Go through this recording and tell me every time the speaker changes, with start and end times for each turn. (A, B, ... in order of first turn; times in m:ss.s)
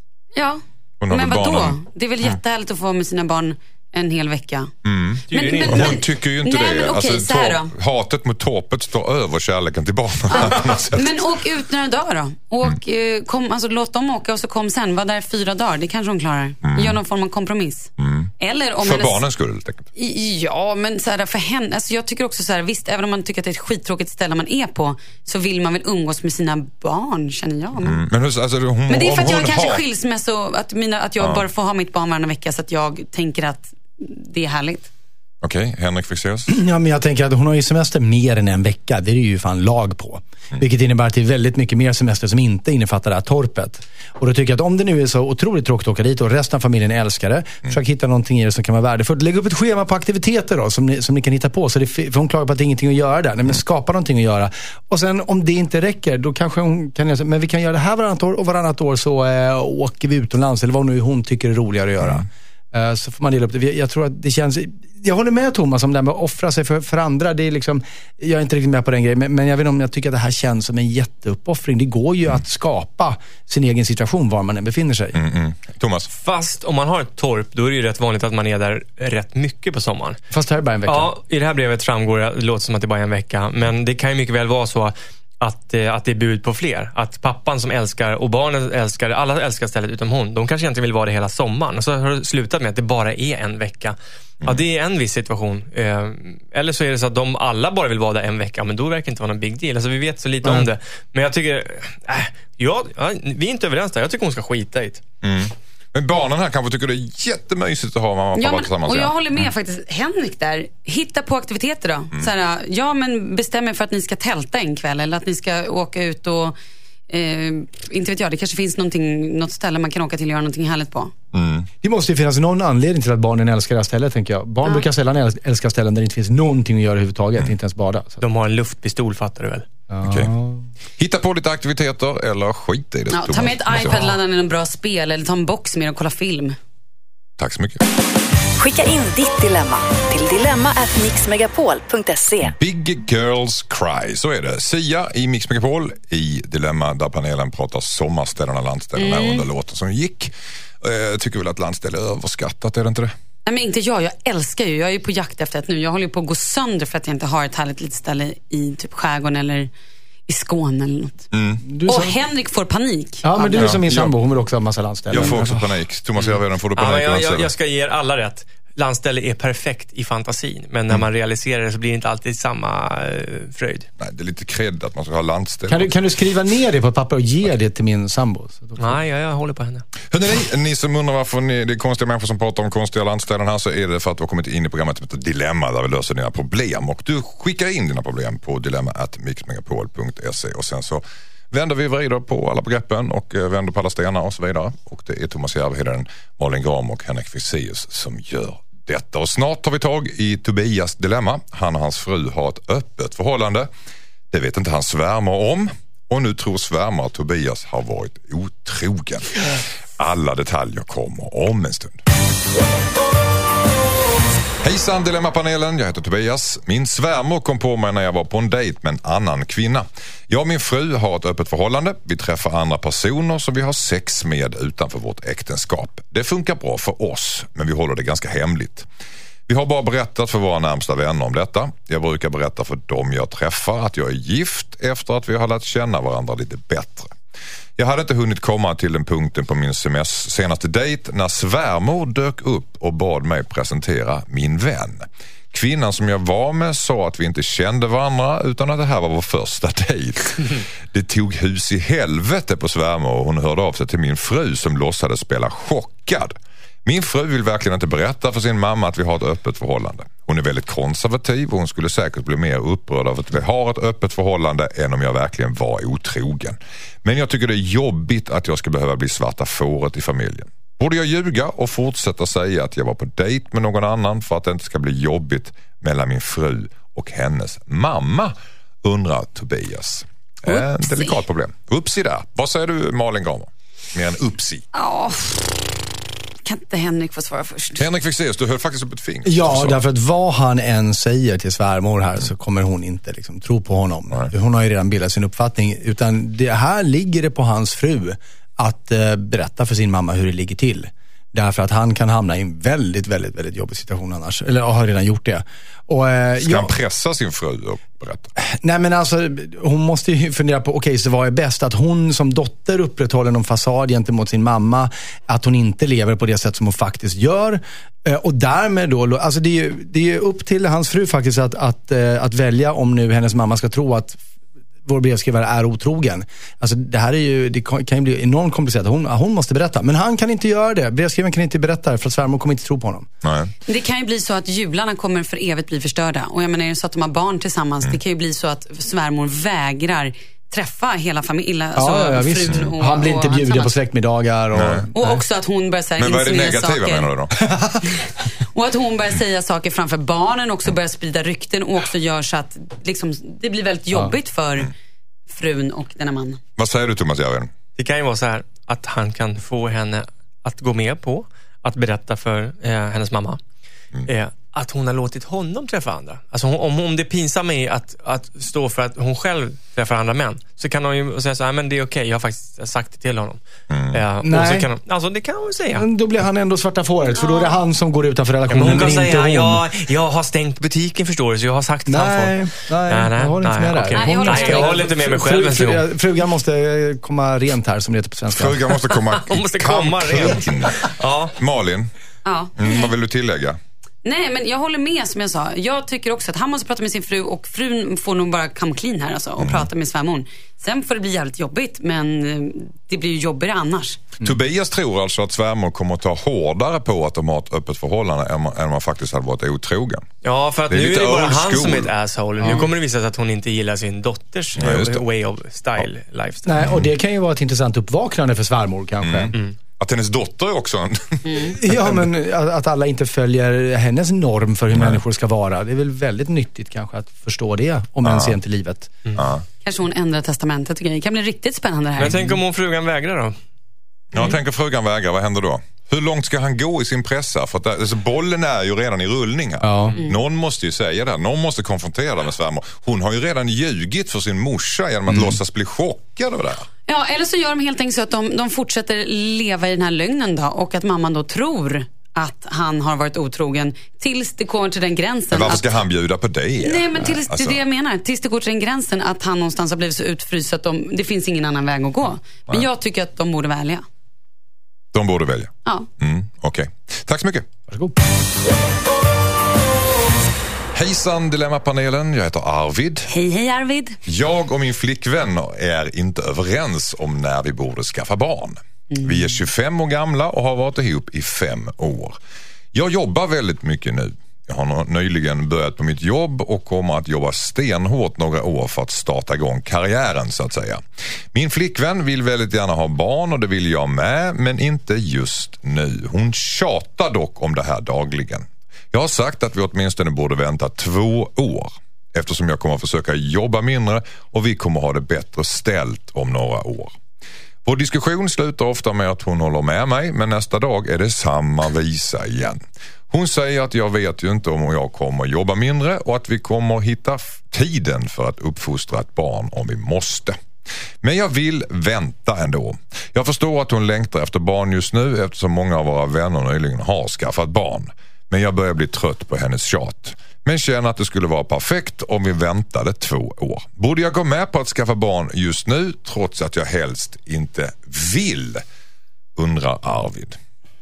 0:00.3-0:04.7 A
0:01.0-0:01.8 B
0:04.8-0:11.2 B
0:05.3-0:07.7 A
0:05.3-0:06.0 C
0:10.3-0:19.2 A
0:16.6-0:17.0 B
0:18.0-0:18.3 B
0:18.8-0:19.9 B
0:19.9-0:28.0 A
0:27.8-0:29.8 B
0:28.9-0:34.9 A
0:35.4-0:36.5 B
0:36.5-1:15.2 D
1:15.1-1:16.1 B
1:16.1-1:20.2 C
1:20.3-1:21.1 D
1:20.8-1:45.0 C
1:45.2-1:49.4 B
1:48.4-1:56.6 A
1:57.1-2:01.1 A
2:01.3-2:01.7 B
2:01.8-2:08.2 D
2:08.2-2:09.7 C
2:09.9-2:10.7 D
2:10.0-2:10.3 B
2:11.0-2:14.1 B
2:13.1-2:16.6 A
2:17.4-2:17.8 B
2:18.6-2:22.5 E
2:22.5-2:30.3 B
2:29.0-2:29.4 A
2:30.8-2:33.1 B
2:33.4-2:39.7 A
2:40.3-2:41.3 A
2:41.3-2:41.6 B
2:41.6-2:42.2 D
2:41.8-2:43.8 A
2:43.2-2:45.7 D
2:43.6-2:44.1 B
2:45.1-2:47.5 B
2:46.2-2:53.9 C
2:54.0-2:55.9 B
2:55.7-2:59.0 D
2:58.8-2:59.8 C
3:00.1-3:23.7 B
3:24.3-3:32.0 B
3:34.6-3:48.9 B
3:49.5-3:57.1 B
3:57.8-4:44.6 B
4:40.5-4:41.2 A
4:44.7-4:45.6 A
4:46.4-4:47.8 A
4:47.8-4:49.8 B
4:49.2-5:06.7 D
5:06.4-5:08.3 B
5:08.4-5:24.2 D
5:24.8-5:33.1 D
5:33.2-5:33.5 B
5:33.7-5:43.7 A
5:41.8-5:45.1 D
5:44.5-5:44.9 B
5:44.9-5:47.1 A
5:46.0-5:47.4 B
5:47.4-5:47.8 D
5:48.0-5:54.7 A
5:55.3-5:56.4 A
5:56.6-5:57.5 B
5:57.8-6:03.4 C
6:04.0-6:13.4 C
6:13.7-6:14.0 B
6:13.9-6:15.9 C
6:14.2-6:14.7 D
6:15.7-6:19.6 D
6:17.1-6:17.6 A
6:18.5-6:25.9 C
6:21.9-6:28.7 D
6:23.9-6:24.9 A
6:28.3-6:31.9 B
6:28.9-6:31.3 C
6:32.2-6:32.9 A
6:32.6-6:33.6 B
6:34.0-6:44.0 A
6:39.4-6:39.7 B
6:44.2-6:50.0 B
6:50.2-6:56.5 C
6:50.7-6:51.9 B
6:52.4-6:52.7 D
6:54.6-6:55.0 B
6:56.4-6:59.3 D
6:56.6-6:56.9 B
6:59.0-7:02.0 B
7:01.2-7:01.6 A
7:01.6-7:09.0 D
7:04.7-7:05.0 B
7:08.0-7:08.3 B
7:09.1-7:09.4 B
7:09.6-7:12.2 A
7:12.0-7:13.4 C
7:12.0-7:12.4 D
7:14.1-7:26.7 B
7:19.6-7:20.0 D
7:25.1-7:25.4 D
7:26.9-7:35.7 A
7:35.3-7:37.6 B
7:36.6-7:43.8 A
7:44.9-7:47.5 B
7:47.7-7:48.0 D
7:50.7-7:53.1 B
7:53.1-7:54.0 A
7:54.0-8:02.2 B
8:02.7-8:10.8 B
8:11.3-8:27.0 B
8:27.6-8:40.4 B
8:41.0-8:58.6 B
8:59.4-9:00.4 B